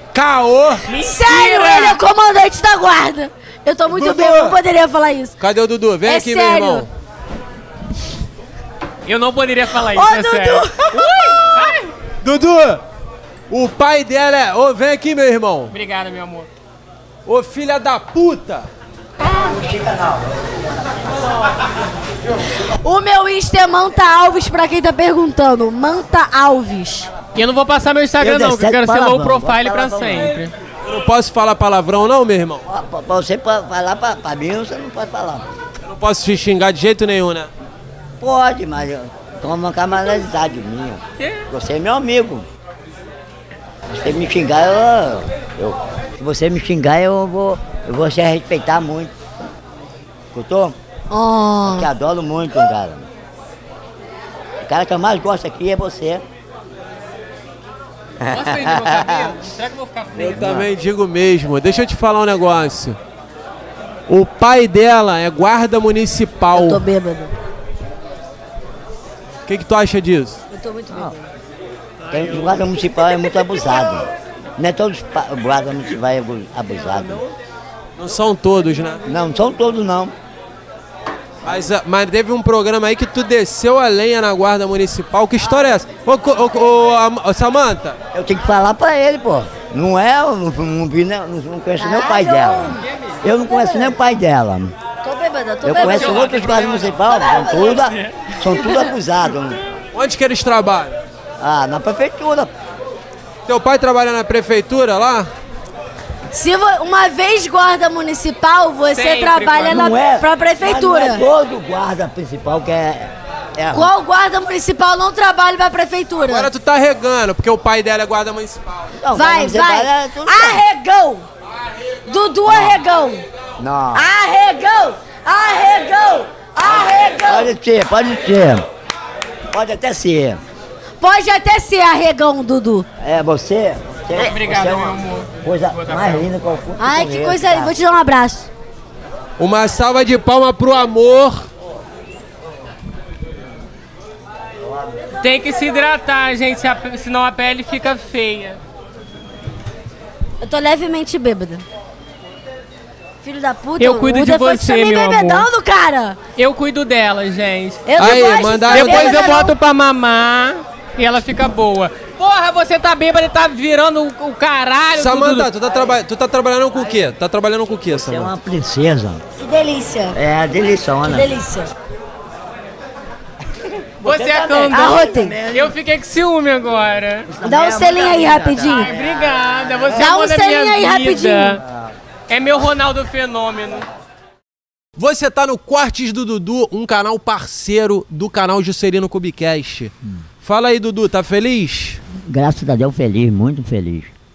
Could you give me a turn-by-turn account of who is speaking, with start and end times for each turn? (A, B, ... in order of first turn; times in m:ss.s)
0:00.1-0:00.9 A
0:00.9-0:02.0 B
0:00.9-0:05.4 C
0:03.9-0:04.6 A
0:05.4-0:06.9 A
0:06.0-0:06.8 C
0:09.0-0:11.9 B
0:09.8-0:11.4 C
0:12.2-0:12.8 A
0:13.5-0:15.7 A
0:15.7-0:16.5 B
0:17.2-0:18.6 A
0:19.4-0:20.4 D
0:22.7-0:27.1 C
0:27.3-0:30.5 B
0:28.2-0:30.3 D
0:30.8-0:32.6 A
0:32.6-0:35.5 D
0:35.8-0:37.5 A
0:38.2-0:42.4 D
0:43.9-0:49.1 D
0:50.3-0:50.8 D
0:51.1-0:51.9 C
0:51.6-0:53.1 D
0:54.6-0:56.2 D
0:58.2-1:00.5 B
0:58.2-0:59.3 D
1:00.1-1:00.7 D
1:00.2-1:03.0 A
1:04.1-1:06.8 A
1:06.5-1:07.3 C
1:09.4-1:10.4 A
1:10.5-1:11.2 C
1:12.1-1:17.3 D
1:18.0-1:19.0 A
1:19.0-1:20.1 D
1:21.4-1:28.0 A
1:28.1-1:34.7 D
1:31.8-1:32.8 C
1:33.5-1:33.9 C
1:35.0-1:37.8 C
1:35.6-1:39.6 D
1:35.7-1:37.0 B
1:37.8-1:38.1 B
1:38.5-1:38.9 C
1:39.9-1:41.0 A
1:41.4-1:42.5 D
1:43.5-1:45.3 A
1:46.3-1:51.2 C
1:48.9-1:49.8 B
1:49.7-1:53.9 D
1:53.7-1:56.5 C
1:56.3-1:58.9 A
1:59.0-2:00.6 D
1:59.1-2:01.2 C
2:02.0-2:03.2 C
2:02.5-2:02.8 D
2:03.6-2:04.1 D
2:03.9-2:07.5 C
2:06.6-2:08.6 D
2:09.5-2:10.4 D
2:11.0-2:12.8 C
2:13.0-2:17.7 D
2:14.1-2:16.2 B
2:16.8-2:18.5 C
2:19.4-2:21.5 A
2:25.2-2:28.6 B
2:30.4-2:31.6 C
2:33.2-2:36.2 C
2:33.8-2:35.5 B
2:36.3-2:45.5 B
2:37.8-2:39.5 C
2:38.0-2:39.5 A
2:44.9-2:48.3 A
2:47.9-2:49.2 D
2:49.4-2:50.2 C
2:50.1-2:51.3 D
2:51.1-2:51.7 C
2:54.0-2:55.7 D
2:54.0-2:57.3 B
2:54.7-2:55.4 C
2:57.3-2:59.0 D
2:57.4-2:58.9 C
2:58.6-3:01.6 B
2:59.9-3:01.6 C
3:02.3-3:03.8 B
3:05.0-3:12.0 A
3:12.2-3:14.1 D